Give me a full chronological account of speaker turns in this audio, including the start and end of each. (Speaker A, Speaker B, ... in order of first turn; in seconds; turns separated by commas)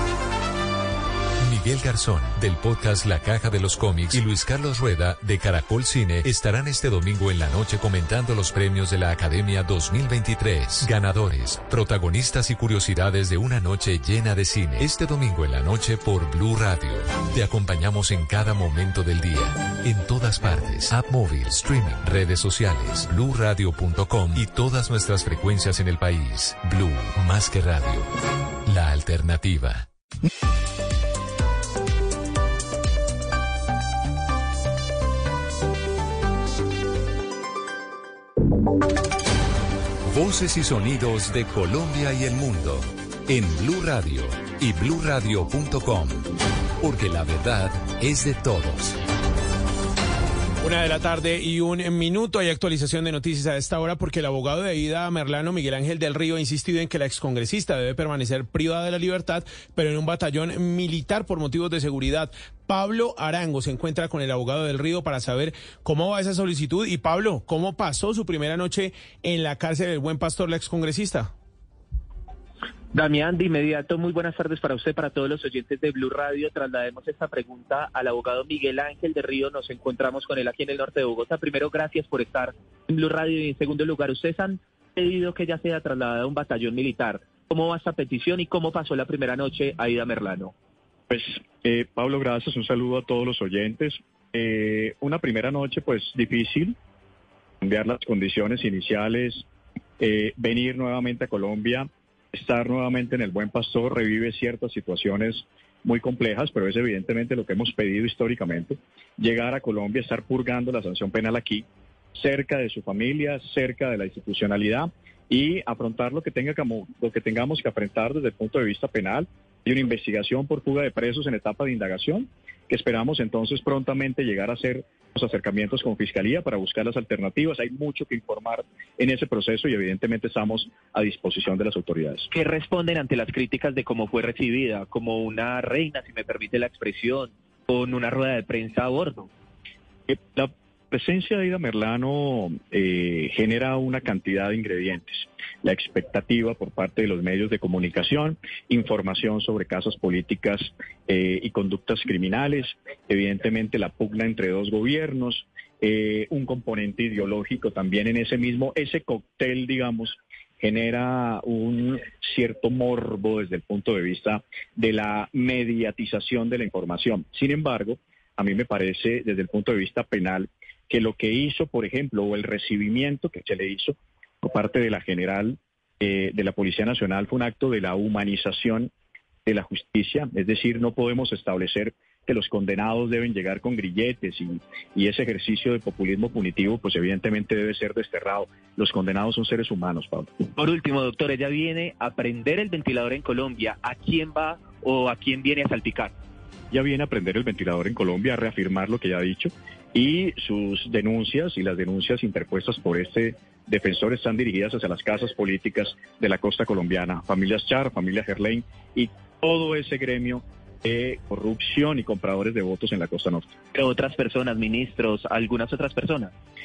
Speaker A: 1.4-28.1, Speaker A: 28.7-29.9, Speaker A: 40.1-46.3, Speaker A: 46.8-49.0, Speaker B: 50.6-71.3, Speaker C: 72.9-90.5, Speaker D: 91.1-96.8, Speaker D: 97.6-99.4, Speaker D: 100.0-111.7, Speaker D: 112.2-132.3, Speaker C: 132.3-139.3, Speaker D: 140.1-178.9, Speaker D: 179.5-190.3, Speaker C: 190.6-196.1, Speaker D: 196.7-213.5, Speaker C: 213.7-216.3